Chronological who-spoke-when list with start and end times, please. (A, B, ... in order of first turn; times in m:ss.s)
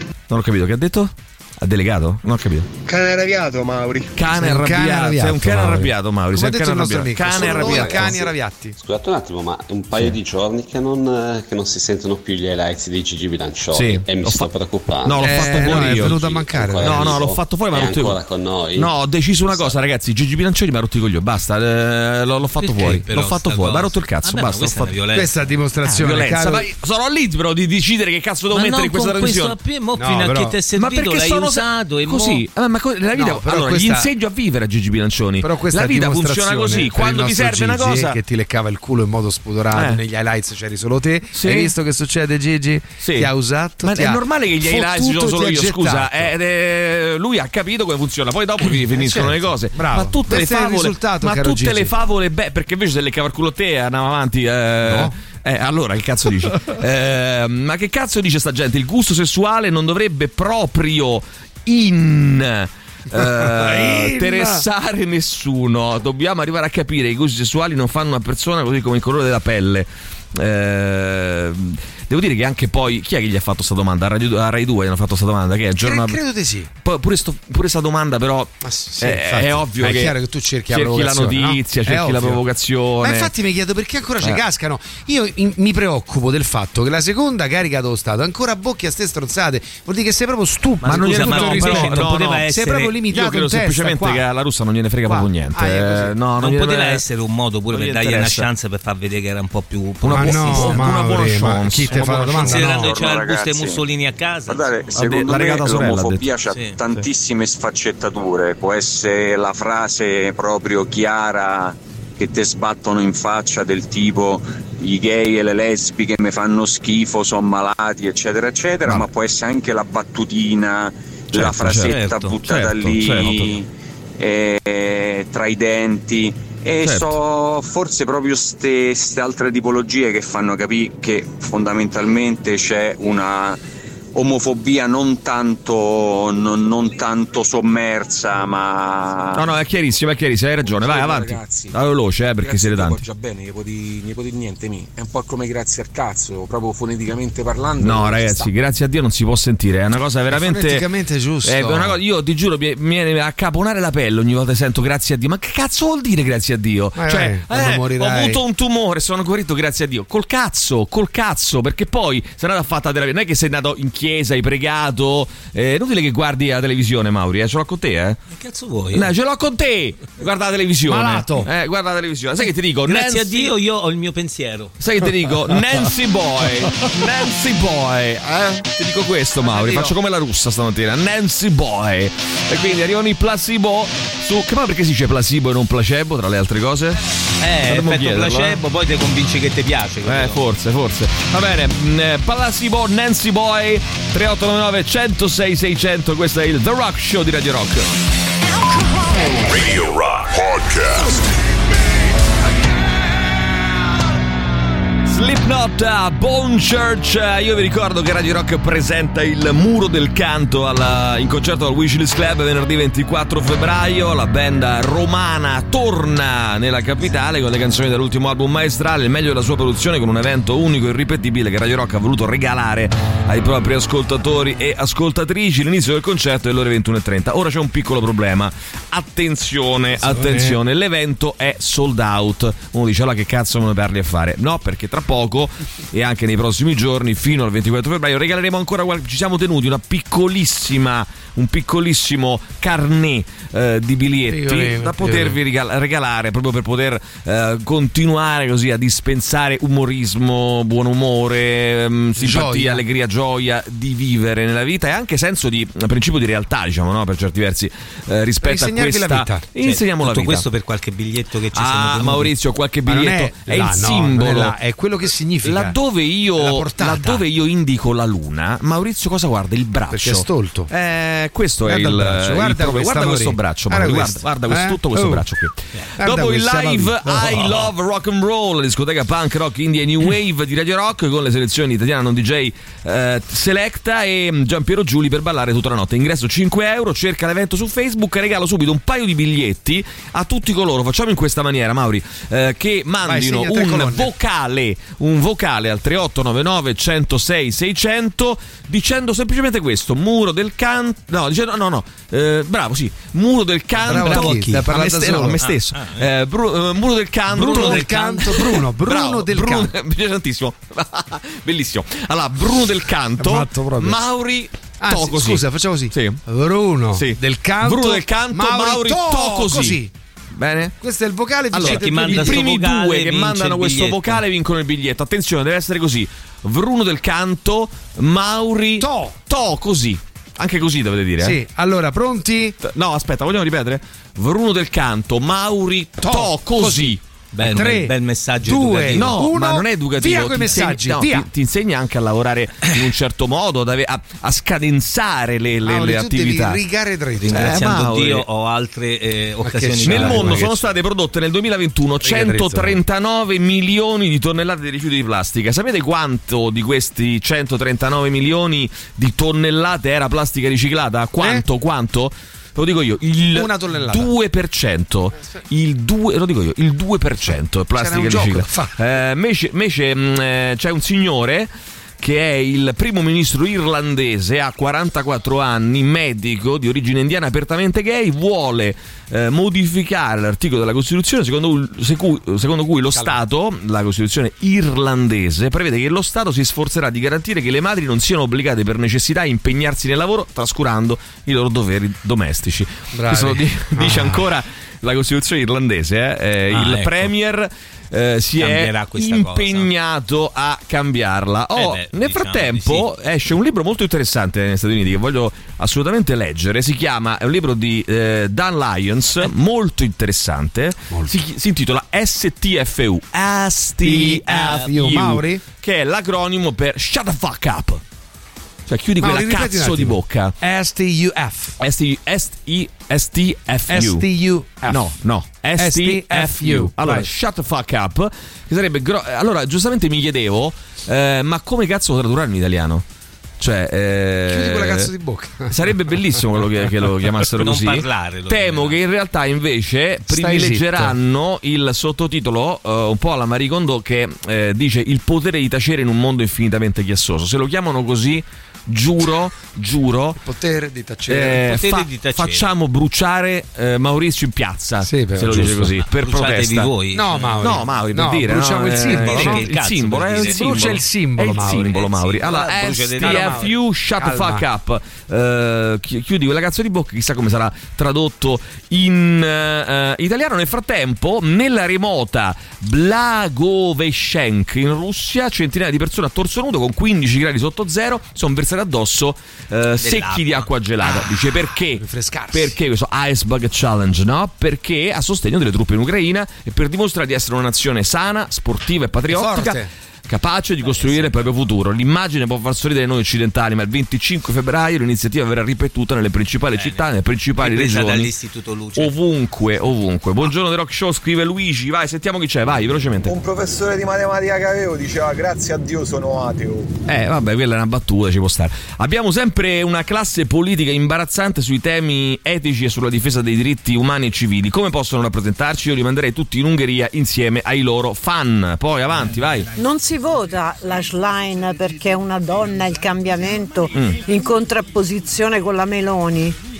0:00.3-0:02.7 A
0:04.1-0:08.2 A
0:04.3-0:08.8 B
0:07.2-0:19.0 C
0:13.7-0:14.5 A
0:15.0-0:16.2 A
0:15.2-0:17.1 B
0:16.8-0:18.2 A
0:18.7-0:24.9 A
0:19.5-0:19.7 C
0:22.6-0:25.3 D
0:25.1-0:26.7 B
0:25.8-0:29.5 A
0:28.5-0:32.4 D
0:30.0-0:30.6 B
0:30.8-0:38.2 A
0:33.1-0:34.1 B
0:35.4-0:46.3 B
0:39.7-0:40.0 A
0:41.3-0:41.7 A
0:43.0-0:43.3 A
0:43.8-1:16.2 A
0:48.6-0:51.9 B
0:54.8-0:55.1 B
1:03.1-1:04.6 B
1:15.8-1:16.7 B
1:16.8-1:20.1 A
1:18.6-1:22.4 B
1:20.7-1:23.3 A
1:23.0-1:34.2 B
1:30.8-1:33.0 D
1:30.8-1:32.5 A
1:33.1-1:37.0 A
1:35.1-1:36.1 B
1:36.4-1:40.9 D
1:37.7-1:38.5 A
1:40.0-1:42.7 A
1:40.1-1:43.0 B
1:42.4-1:45.4 D
1:42.7-1:43.8 E
1:44.5-2:03.7 E
1:44.9-1:46.3 A
1:46.5-1:46.8 D
2:01.3-2:03.5 A
2:01.6-2:02.4 D
2:04.2-2:13.6 E
2:06.8-2:07.2 A
2:14.1-2:19.4 E
2:19.3-2:23.0 A
2:20.6-2:21.8 F
2:22.4-2:28.5 F
2:27.8-2:30.8 A
2:30.3-2:32.0 B
2:31.4-2:48.2 A
2:37.0-2:38.4 B
2:48.3-2:49.1 D
2:48.9-2:53.4 A
2:50.9-2:51.5 B
2:52.8-2:54.7 D
2:54.8-3:07.0 A
2:59.4-2:59.9 B
3:07.4-3:10.4 D
3:07.7-3:08.6 A
3:10.0-3:17.9 A
3:19.3-3:21.3 G
3:25.0-4:20.4 A
3:50.0-3:50.6 B
4:04.3-4:05.4 B
4:12.2-4:12.8 B
4:18.4-4:19.4 B
4:19.6-4:22.3 D
4:21.5-4:24.5 A
4:22.8-4:25.8 B
4:25.4-5:16.2 A
4:26.4-4:27.2 B
4:29.9-4:30.7 B
4:31.6-4:35.2 B
4:36.0-4:37.7 B
4:53.0-4:54.1 B
5:03.8-5:05.4 B
5:03.8-5:04.6 D
5:05.4-5:06.0 D
5:07.3-5:09.7 B
5:07.4-5:07.8 D
5:13.2-5:14.0 B
5:14.8-5:19.9 B
5:16.9-5:19.8 A
5:20.4-5:20.7 A
5:20.8-5:22.5 B
5:21.5-5:31.4 A
5:21.6-5:24.2 D
5:28.8-5:29.1 B
5:31.2-5:32.6 B
5:32.6-5:37.0 A
5:36.0-5:37.0 B
5:37.3-5:39.1 D
5:37.5-5:41.3 B
5:38.9-5:46.6 A
5:45.6-5:47.6 B
5:47.2-5:50.5 D
5:47.3-5:48.2 A
5:49.4-5:50.7 B
5:49.8-6:57.8 A
5:52.0-5:52.8 B
6:03.3-6:04.1 B
6:05.1-6:05.4 B
6:07.7-6:08.8 B
6:22.9-6:23.2 B
6:32.9-6:34.2 B
6:36.5-6:37.1 D
6:38.4-6:39.7 D
6:41.5-6:42.9 D
6:53.8-6:55.4 B
6:58.7-7:00.3 A
6:59.0-7:01.6 B
7:01.6-7:04.0 A
7:03.7-7:04.9 B
7:04.7-7:12.8 A
7:05.6-7:07.1 B
7:13.4-7:14.9 A
7:14.3-7:15.5 B
7:15.5-7:30.2 A
7:17.3-7:18.8 D
7:20.1-7:20.9 B
7:30.2-7:31.4 B
7:31.1-7:36.7 A
7:31.4-7:32.5 D
7:34.8-7:35.7 B
7:35.2-7:37.6 D
7:36.9-7:39.5 B
7:37.4-8:09.6 A
7:38.8-7:40.8 D
7:40.2-7:41.7 B
7:41.4-7:43.5 D
7:43.0-7:44.4 B
7:59.8-8:00.5 D
8:00.8-8:02.5 B
8:09.1-8:09.7 B
8:10.1-8:18.1 A
8:10.6-8:11.4 D
8:16.5-8:18.9 D
8:18.8-8:23.1 A
8:23.0-8:26.7 H
8:26.9-8:39.5 A
8:39.6-8:46.4 I